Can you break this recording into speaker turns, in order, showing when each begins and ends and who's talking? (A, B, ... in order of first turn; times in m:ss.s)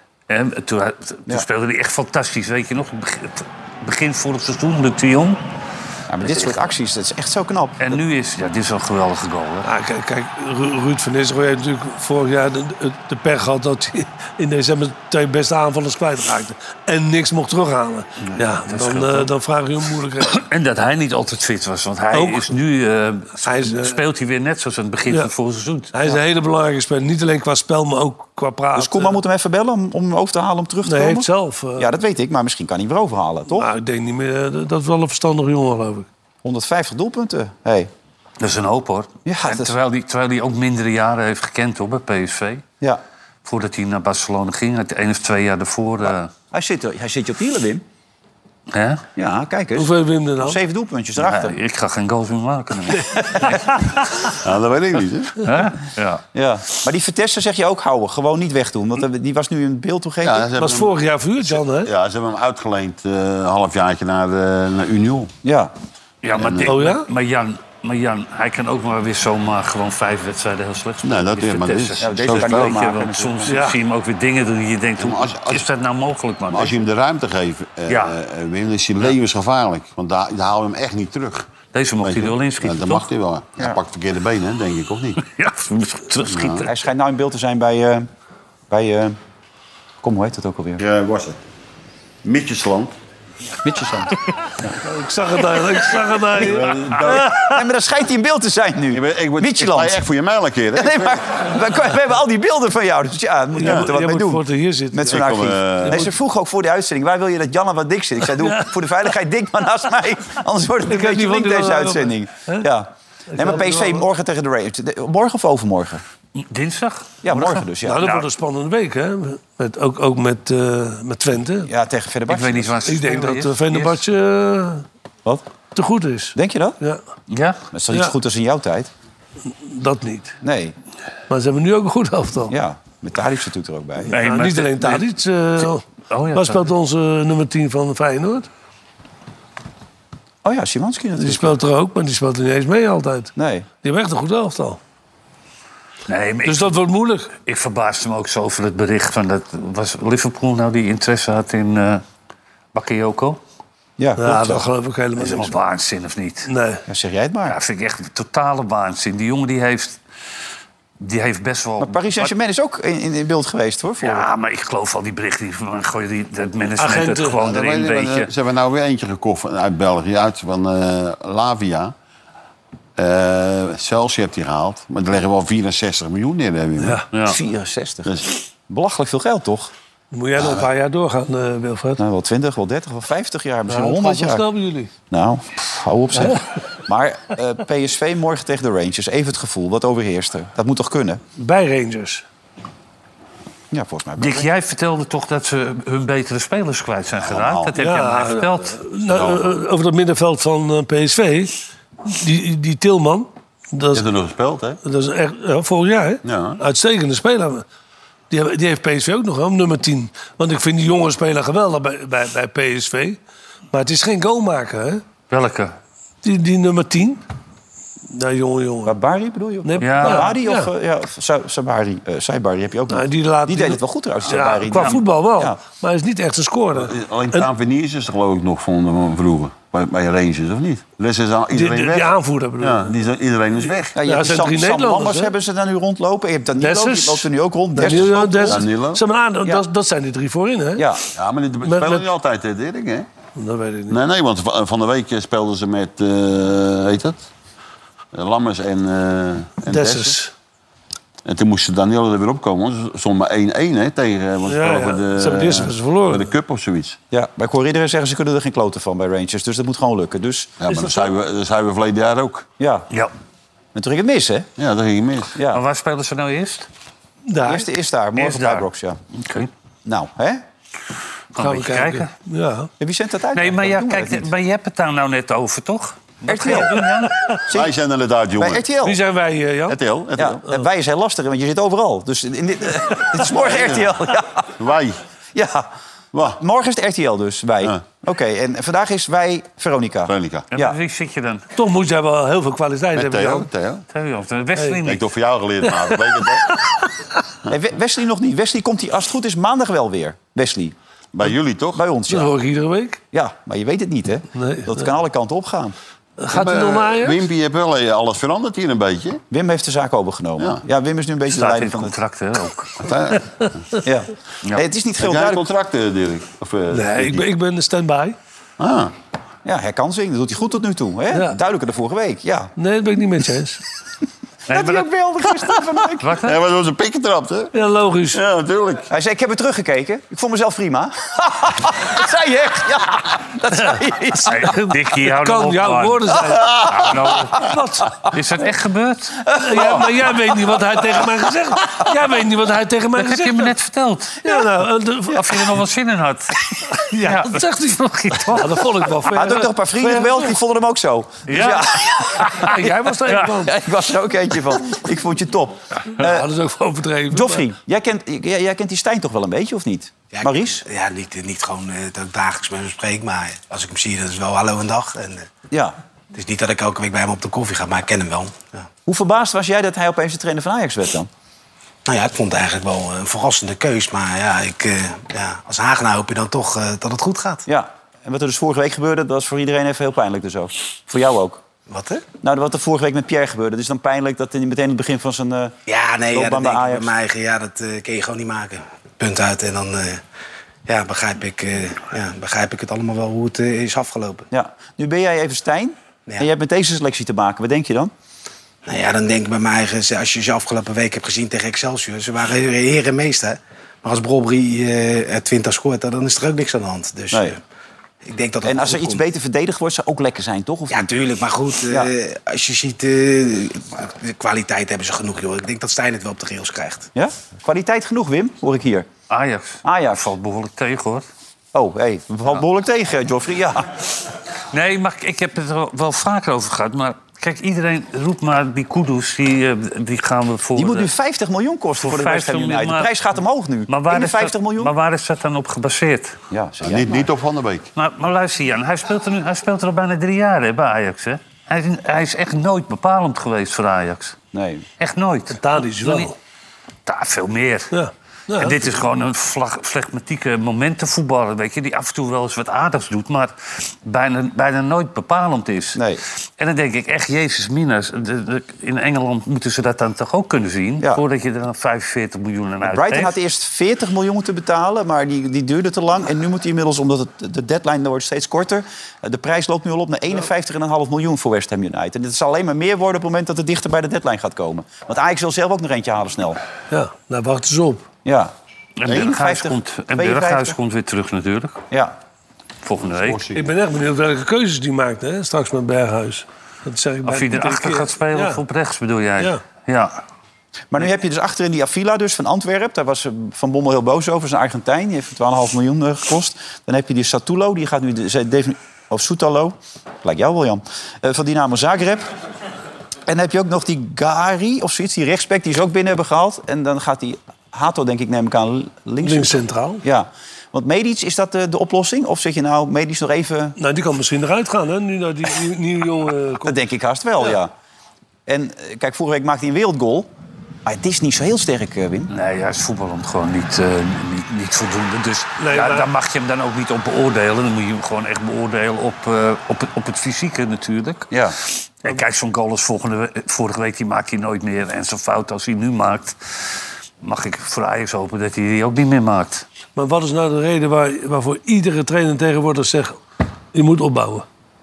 0:00.3-0:05.4 A
0:06.1-0:08.0 B
0:06.2-0:06.6 A
0:07.8-0:09.7 A
0:09.6-0:20.4 C
0:18.7-0:19.3 A
0:20.2-0:26.2 A
0:22.1-0:22.5 C
0:23.4-0:24.0 C
0:25.9-0:29.2 C
0:28.8-0:33.7 B
0:30.8-0:31.9 C
0:33.5-0:36.1 C
0:36.4-0:37.9 B
0:38.4-0:42.6 A
0:39.3-0:39.7 B
0:43.4-0:46.3 A
0:46.5-0:47.8 B
0:48.7-0:49.0 A
0:49.2-0:51.6 B
0:49.8-0:50.6 C
0:51.2-0:54.2 A
0:54.3-0:55.4 D
0:55.4-0:56.2 A
0:56.3-1:00.5 B
1:00.2-1:01.0 D
1:00.6-1:01.9 C
1:01.6-1:05.3 D
1:05.4-1:05.7 B
1:06.2-1:16.8 A
1:06.4-1:06.8 D
1:06.6-1:07.1 C
1:11.0-1:12.9 D
1:12.0-1:13.6 B
1:13.4-1:13.8 C
1:15.0-1:15.7 D
1:16.5-1:21.5 D
1:17.9-1:18.1 A
1:21.7-1:23.1 A
1:22.0-1:25.2 D
1:25.3-1:26.7 A
1:26.3-1:26.7 D
1:26.6-1:28.1 B
1:28.7-1:29.2 B
1:30.0-1:30.8 B
1:30.8-1:31.4 D
1:32.2-1:33.0 D
1:34.8-1:37.5 C
1:36.4-1:37.3 D
1:37.2-1:40.0 B
1:38.9-1:41.2 D
1:40.8-1:56.0 B
1:43.6-1:46.1 C
1:45.1-1:46.0 D
1:48.3-1:48.8 C
1:50.9-1:52.7 C
1:53.3-1:54.1 C
1:56.4-1:58.2 A
1:57.2-1:58.1 B
1:57.8-2:01.7 C
2:01.7-2:02.8 B
2:02.3-2:04.0 A
2:02.9-2:04.8 C
2:05.8-2:07.0 C
2:06.4-2:06.8 B
2:07.3-2:07.6 A
2:07.7-2:08.9 B
2:07.9-2:08.2 C
2:09.4-2:10.4 C
2:10.4-2:10.8 B
2:11.3-2:12.5 C
2:12.5-2:14.1 B
2:14.0-2:18.5 C
2:14.1-2:15.0 A
2:15.6-2:16.7 A
2:20.4-2:21.6 B
2:21.2-2:24.8 C
2:23.4-2:23.7 B
2:26.1-2:26.8 A
2:26.4-2:27.4 C
2:27.3-2:32.0 A
2:32.7-2:33.4 A
2:34.0-2:34.7 B
2:34.2-2:35.6 C
2:35.2-2:36.5 A
2:36.5-2:36.8 C
2:36.9-2:37.6 B
2:37.5-2:40.0 A
2:41.0-2:42.3 A
2:41.8-2:44.3 B
2:44.0-2:48.3 A
2:46.8-2:47.4 C
2:47.4-2:51.9 D
2:53.0-2:57.0 D
2:56.8-2:57.0 C
2:57.1-2:57.4 A
2:57.3-2:58.1 B
2:58.1-2:58.3 D
2:58.7-2:59.7 B
3:00.1-3:02.0 C
3:02.0-3:04.4 B
3:03.7-3:04.9 C
3:05.1-3:11.2 B
3:06.2-3:06.5 C
3:11.4-3:12.2 C
3:13.7-3:14.5 B
3:14.2-3:18.8 A
3:17.2-3:17.7 D
3:17.8-3:24.0 C
3:19.1-3:19.6 D
3:23.9-3:24.8 D
3:24.8-3:27.6 C
3:26.2-3:26.6 D
3:28.3-3:33.2 C
3:33.7-3:35.0 C
3:35.3-3:35.8 A
3:36.2-3:37.2 C
3:38.1-3:39.0 C
3:38.8-3:45.6 B
3:39.6-3:40.7 C
3:39.8-3:40.3 A
3:42.9-3:47.5 C
3:46.8-3:54.0 D
3:51.5-3:52.9 C
3:54.0-3:58.6 B
3:54.0-3:55.3 C
3:56.6-4:00.9 C
3:58.5-3:59.0 D
4:00.8-4:01.0 B
4:01.2-4:03.1 D
4:01.6-4:02.1 C
4:03.4-4:04.0 C
4:03.9-4:07.3 D
4:08.1-4:10.2 D
4:09.7-4:10.3 C
4:11.2-4:17.0 D
4:14.5-4:16.3 C
4:17.1-4:20.6 B
4:20.6-4:22.5 D
4:20.7-4:21.1 C
4:22.6-4:22.9 B
4:23.7-4:24.5 B
4:24.6-4:25.4 D
4:25.4-4:25.6 B
4:25.5-4:26.7 A
4:27.3-4:27.7 C
4:27.5-4:29.0 B
4:28.2-4:29.5 A
4:29.8-4:30.4 B
4:31.4-4:32.1 A
4:31.4-4:32.7 C
4:32.8-4:34.3 B
4:33.3-4:37.3 A
4:36.2-4:36.8 B
4:37.5-4:37.8 B
4:37.5-4:38.7 D
4:38.4-4:39.0 B
4:38.8-4:39.8 C
4:39.7-4:40.4 D
4:40.2-4:44.5 B
4:43.4-4:43.9 D
4:44.6-4:45.0 D
4:45.3-4:45.7 B
4:46.2-4:50.8 B
4:50.1-4:50.5 D
4:50.5-4:51.5 A
4:51.6-4:53.5 C
4:53.0-4:53.8 D
4:53.9-4:55.0 A
4:54.6-4:54.8 C
4:54.8-4:56.6 D
4:55.6-4:56.3 C
4:57.5-5:00.8 B
5:01.1-5:01.8 D
5:01.7-5:02.3 B
5:02.1-5:03.0 C
5:03.1-5:05.8 B
5:04.4-5:04.9 C
5:06.2-5:07.2 C
5:06.3-5:09.2 D
5:09.3-5:12.0 B
5:11.3-5:12.8 A
5:12.8-5:13.6 D
5:13.8-5:15.4 B
5:15.0-5:17.3 D
5:16.7-5:18.2 C
5:18.6-5:18.9 D
5:19.4-5:22.5 B
5:21.1-5:21.4 C
5:22.6-5:23.6 C
5:24.5-5:24.9 A
5:24.5-5:26.2 B
5:26.0-5:26.4 A
5:26.2-5:27.5 D
5:27.5-5:28.2 C
5:28.1-5:28.9 D
5:28.9-5:34.6 B
5:34.3-5:37.4 A
5:35.1-5:36.6 C
5:37.4-5:37.9 C
5:38.1-5:39.3 A
5:39.3-5:39.8 B
5:39.4-5:43.5 C
5:43.0-5:44.4 A
5:44.2-5:45.5 C
5:45.1-5:48.7 A
5:46.7-5:50.4 C
5:49.1-5:56.3 B
5:51.3-5:52.5 A
5:52.3-5:53.5 C
5:56.0-5:57.5 C
5:57.1-6:00.6 B
6:00.1-6:05.3 E
6:05.5-6:05.8 B
6:06.1-6:08.7 E
6:08.9-6:11.1 B
6:11.9-6:17.5 E
6:17.5-6:21.4 B
6:21.7-6:22.0 E
6:22.2-6:25.5 B
6:25.7-6:30.0 E
6:26.1-6:26.9 B
6:30.7-6:34.3 E
6:34.3-6:37.9 B
6:38.7-6:47.4 E
6:48.0-6:49.0 E
6:48.4-6:50.9 B
6:50.7-6:56.9 E
6:57.0-6:58.9 B
6:59.1-7:01.0 A
6:59.6-7:00.0 B
7:01.5-7:03.7 B
7:04.5-7:10.9 A
7:10.6-7:14.7 B
7:11.8-7:13.1 A
7:13.7-7:16.2 A
7:16.3-7:17.1 B
7:16.6-7:17.7 D
7:17.8-7:24.2 A
7:24.3-7:24.6 B
7:24.8-7:26.1 A
7:25.4-7:26.2 C
7:26.9-7:27.7 A
7:27.7-7:28.7 C
7:28.4-7:43.2 A
7:35.8-7:36.0 B
7:42.6-7:56.4 B
7:56.7-7:57.9 C
7:58.0-7:58.3 B
7:58.8-8:01.6 A
7:58.9-8:00.6 B
8:01.7-8:02.0 B
8:02.6-8:03.2 A
8:02.9-8:03.5 D
8:03.3-8:08.4 C
8:07.1-8:10.0 A
8:10.7-8:22.1 B
8:23.1-8:33.6 B
8:29.0-8:29.8 C
8:33.6-8:36.6 C
8:36.4-8:37.5 B
8:38.3-8:40.1 B
8:40.7-8:42.1 B
8:42.1-8:59.5 A
8:45.4-8:45.9 C
8:51.1-8:51.4 B
8:59.8-9:03.0 C
9:03.5-9:04.3 C